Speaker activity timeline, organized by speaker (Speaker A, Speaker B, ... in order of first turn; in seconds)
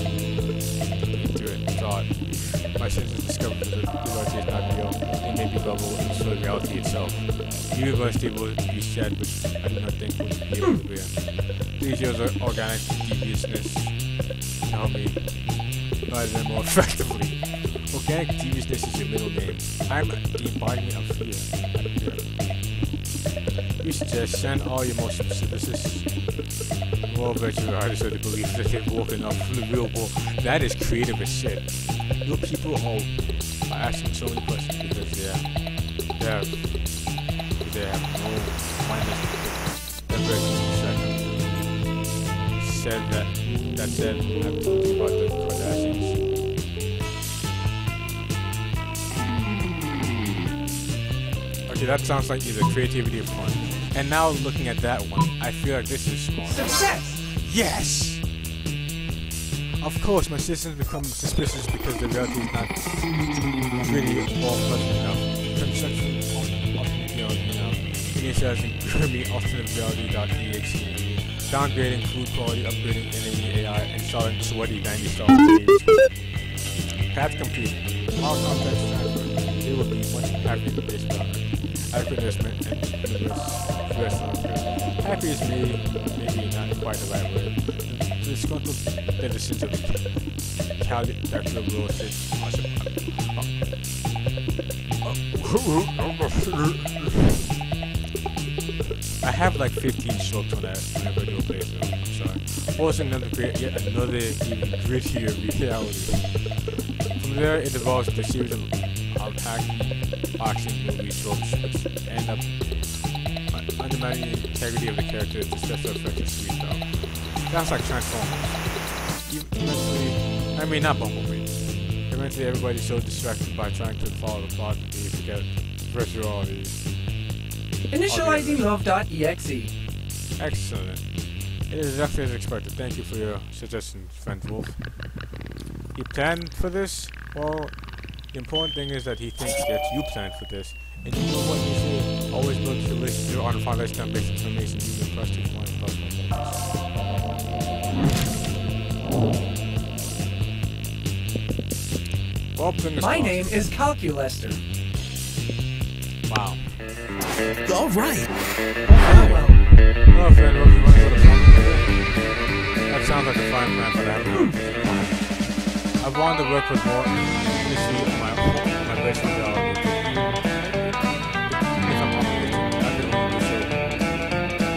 Speaker A: 1.1-23.0, 23.8-26.4, 27.1-41.8, 42.5-46.3, 51.6-58.3, 59.8-76.6, 77.1-93.6, 95.0-97.2, 99.2-126.8, 128.1-128.7, 130.4-134.9, 135.9-146.6, 152.5-153.7, 156.2-156.7, 158.9-170.6, 171.8-174.3
Speaker B: 56.5-57.2, 127.9-129.7, 153.0-154.6, 158.8-159.8